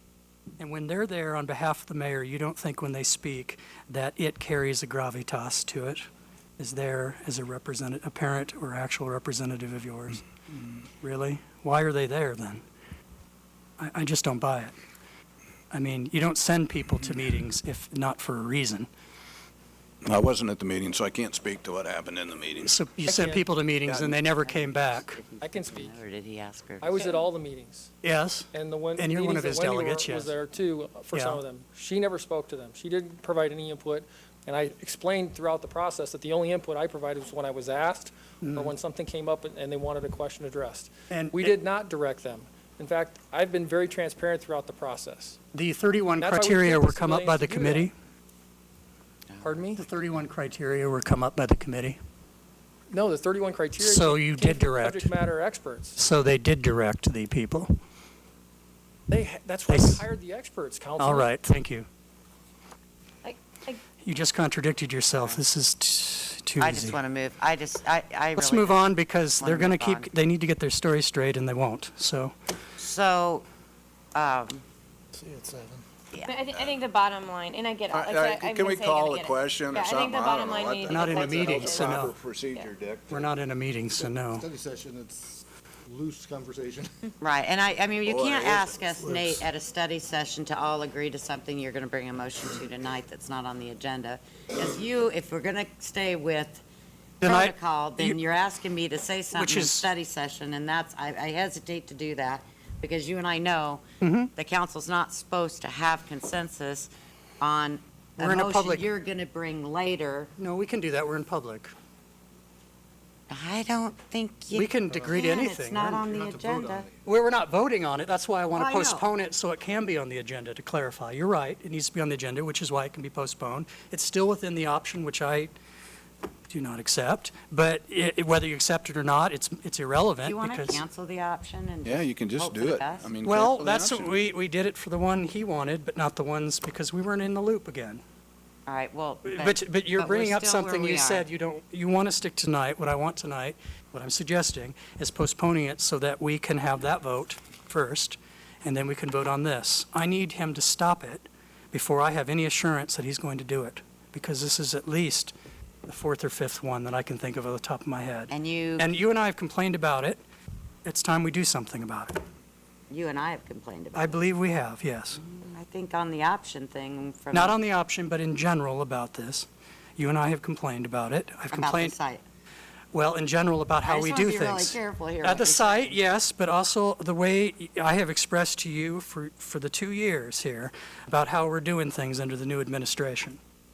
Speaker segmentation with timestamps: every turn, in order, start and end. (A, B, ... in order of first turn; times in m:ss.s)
0:00.6-0:06.0 A
0:06.6-0:10.2 A
0:11.0-0:12.6 A
0:13.8-0:14.8 A
0:15.7-0:18.9 A
0:20.0-0:22.8 B
0:22.7-0:25.2 A
0:23.0-0:23.5 C
0:23.9-0:24.2 B
0:24.4-0:27.0 D
0:25.4-0:26.0 C
0:26.8-0:27.9 C
0:28.0-0:30.3 A
0:28.5-0:45.4 C
0:31.1-0:31.4 A
0:38.4-0:38.7 A
0:41.1-0:41.6 A
0:45.5-0:47.9 A
0:46.2-0:47.9 C
0:49.3-0:49.7 D
0:49.4-0:49.8 C
0:49.8-0:52.0 A
0:52.9-0:56.0 C
0:53.8-0:55.1 A
0:56.0-0:57.8 A
0:59.1-1:01.3 C
0:59.7-1:00.0 A
1:01.0-1:01.9 A
1:03.2-1:03.8 E
1:04.0-1:07.0 A
1:05.2-1:05.4 D
1:06.6-1:10.1 D
1:08.4-1:12.4 A
1:12.8-1:13.5 D
1:14.2-1:14.6 D
1:15.2-1:15.8 F
1:16.2-1:22.7 E
1:17.9-1:23.3 B
1:20.9-1:22.2 A
1:23.1-1:24.5 A
1:24.0-1:26.9 F
1:27.2-1:36.6 D
1:28.1-1:28.7 B
1:29.0-1:29.4 F
1:37.2-1:43.8 D
1:37.2-1:38.2 A
1:39.3-1:39.9 A
1:44.0-1:44.3 A
1:44.4-1:46.9 D
1:47.4-1:50.3 D
1:48.2-1:48.9 A
1:50.4-1:51.7 A
1:53.3-1:56.9 D
1:54.5-1:56.0 A
1:56.1-1:56.9 F
1:57.0-2:05.5 A
1:58.5-1:59.1 D
2:06.5-2:10.8 A
2:10.2-2:13.1 D
2:11.8-2:14.2 B
2:13.2-2:18.0 A
2:18.7-2:21.3 D
2:19.2-2:35.3 A
2:35.9-2:40.2 A
2:38.3-2:38.9 D
2:40.8-2:42.2 A
2:42.9-2:44.2 D
2:44.0-2:45.2 A
2:45.1-2:47.6 D
2:47.3-2:52.0 A
2:51.5-2:52.2 D
2:52.9-3:03.4 A
2:53.8-2:56.0 D